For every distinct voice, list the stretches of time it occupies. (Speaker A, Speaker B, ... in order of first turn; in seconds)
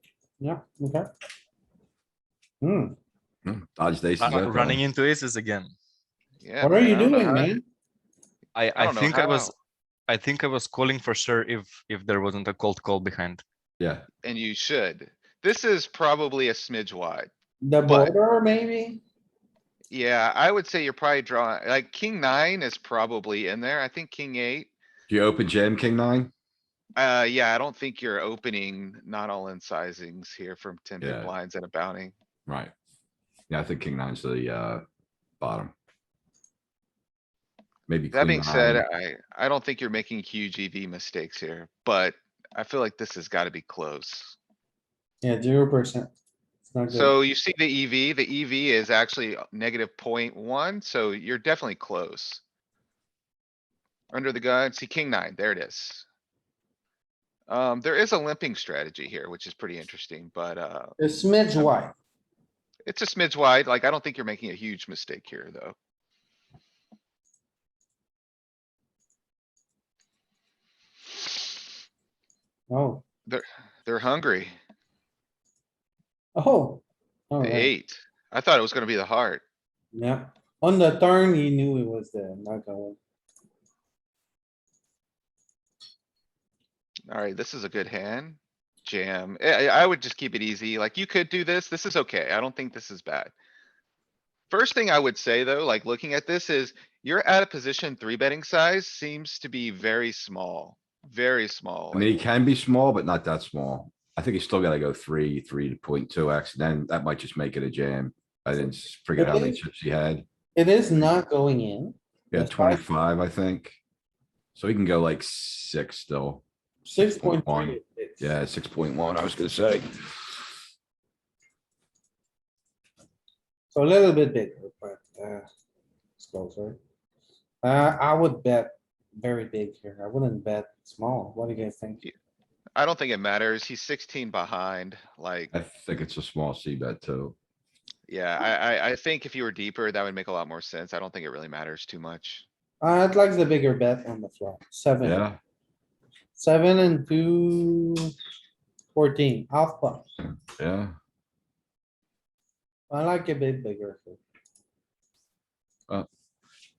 Speaker A: 0.4-1.1, 2.6-3.0, 6.6-7.6, 17.6-19.0, 45.2-46.1, 46.7-47.1, 61.0-62.0, 72.7-73.0, 76.4-77.7, 79.9-83.0, 109.2-109.6, 110.6-112.8, 116.8-118.3, 123.7-125.5, 126.2-126.8, 127.6-132.0, 142.8-145.2, 146.3-148.1, 148.9-150.1, 152.9-154.2
Speaker B: 3.4-4.8, 13.8-14.0, 25.1-26.3, 31.0-31.3, 32.5-32.7, 33.5-34.8, 35.4-35.7, 37.9-38.8, 101.9-110.2, 112.3-113.8, 114.5-116.4, 117.0-120.4, 135.5-137.3, 145.0-145.4, 150.6-150.9
Speaker C: 4.2-5.7, 8.6-9.5, 10.1-13.4
Speaker D: 6.4-7.6, 8.8-9.5, 14.2-17.3, 17.9-18.1, 19.9-24.7, 26.9-32.1, 38.1-44.4, 46.9-52.4, 54.1-56.0, 57.5-61.0, 62.9-65.8, 73.3-74.5, 77.4-79.4, 87.1-93.3, 94.5-102.3, 132.8-135.5, 138.1-142.4